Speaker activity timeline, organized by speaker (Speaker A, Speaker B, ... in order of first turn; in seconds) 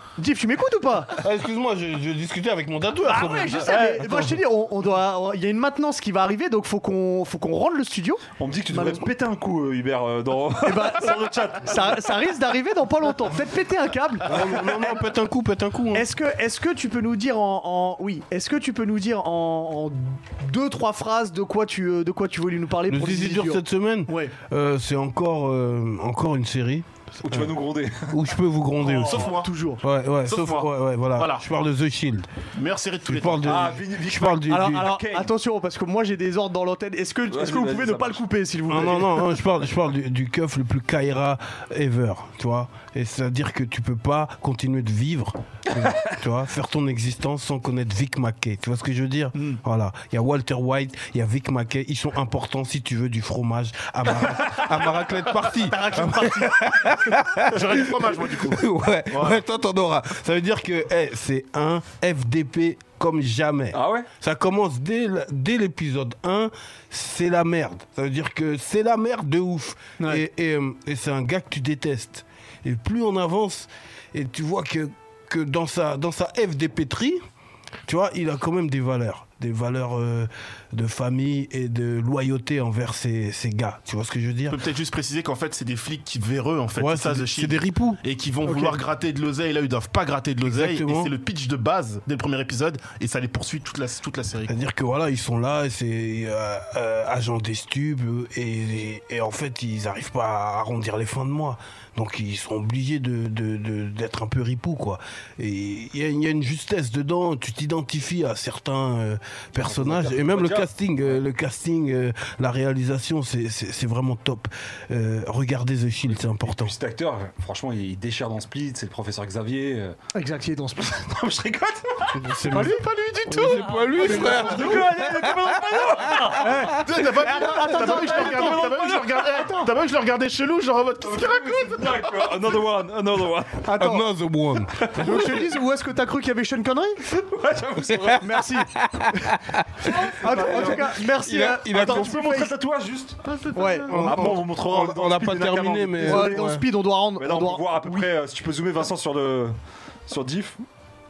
Speaker A: 0.2-1.2, 3.0-9.1, 10.6-14.9, 15.9-24.3, 29.1-29.8, 34.5-39.2, 49.3-49.6, 55.4-57.2, 70.0-70.2, 88.5-88.8, 120.1-121.0, 122.5-128.6, 133.6-134.1, 134.9-137.1, 138.1-142.5, 143.5-144.2, 146.0-148.1
Speaker B: 1.2-4.3, 14.2-16.1, 22.9-27.5, 28.1-32.3, 33.1-34.9, 38.7-77.2, 77.8-84.6, 86.8-88.0, 90.5-91.1, 94.5-116.7, 122.1-126.8, 133.8-135.3, 137.8-138.1, 138.7-142.5, 143.7-146.6
Speaker C: 8.4-12.2, 27.2-28.2, 33.4-35.3, 37.3-38.2, 63.7-64.1, 109.6-111.2, 116.0-120.0, 120.9-122.3, 123.9-126.6, 127.8-129.7, 131.0-133.6, 137.1-138.2, 139.9-140.9, 141.6-143.2, 144.0-146.6, 147.2-149.6, 150.1-150.6
Speaker D: 28.8-29.5, 30.2-31.4, 32.5-33.8, 57.5-59.4, 84.5-94.5, 122.5-124.2, 126.7-132.3, 143.3-144.3